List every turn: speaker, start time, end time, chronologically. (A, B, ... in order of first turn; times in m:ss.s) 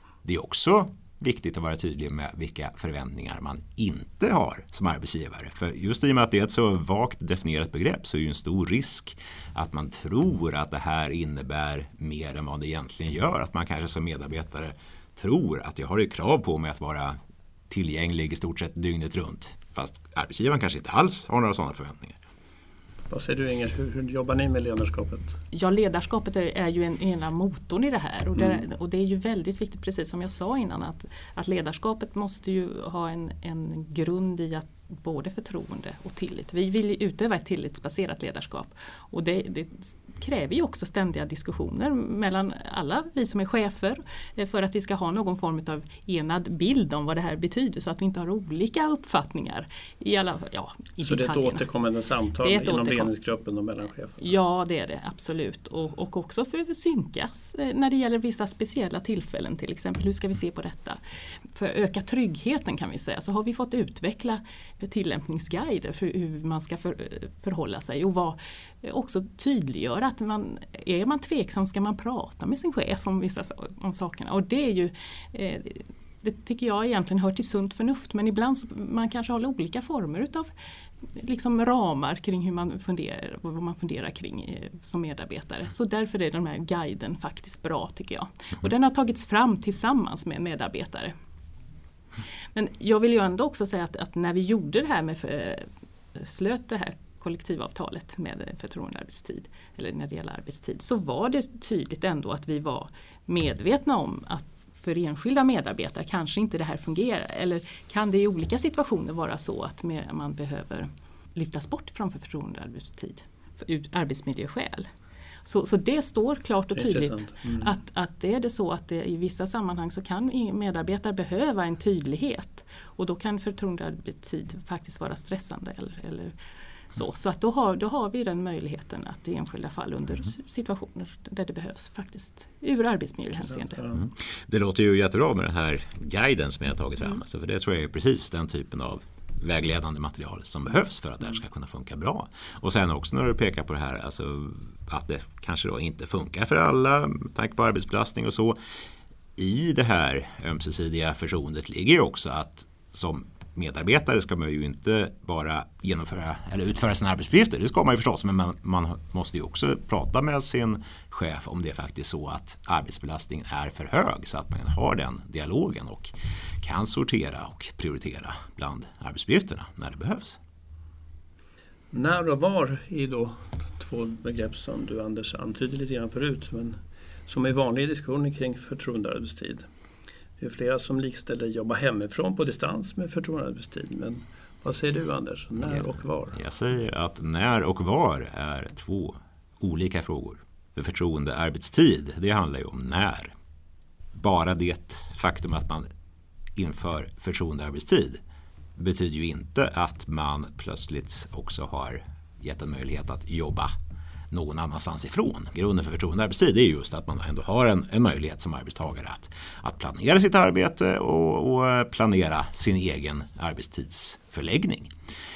0:00.2-0:17.2 A
0:17.7-0:22.2 A
0:23.1-0:25.4 B
0:25.5-0:51.7 C
0:51.0-0:54.2 B
0:52.4-0:53.1 C
0:54.2-1:01.0 C
1:01.5-1:20.5 C
1:21.0-1:31.1 C
1:32.5-1:54.9 C
1:55.4-2:06.3 C
1:56.8-1:57.8 B
2:06.9-2:13.8 C
2:13.6-2:14.0 B
2:14.0-2:28.6 A
2:29.4-2:50.4 A
2:51.9-2:59.6 B
3:00.4-3:06.4 B
3:05.6-3:13.3 A
3:14.2-3:15.9 A
3:16.6-3:18.2 A
3:18.8-3:23.7 A
3:24.3-3:34.9 A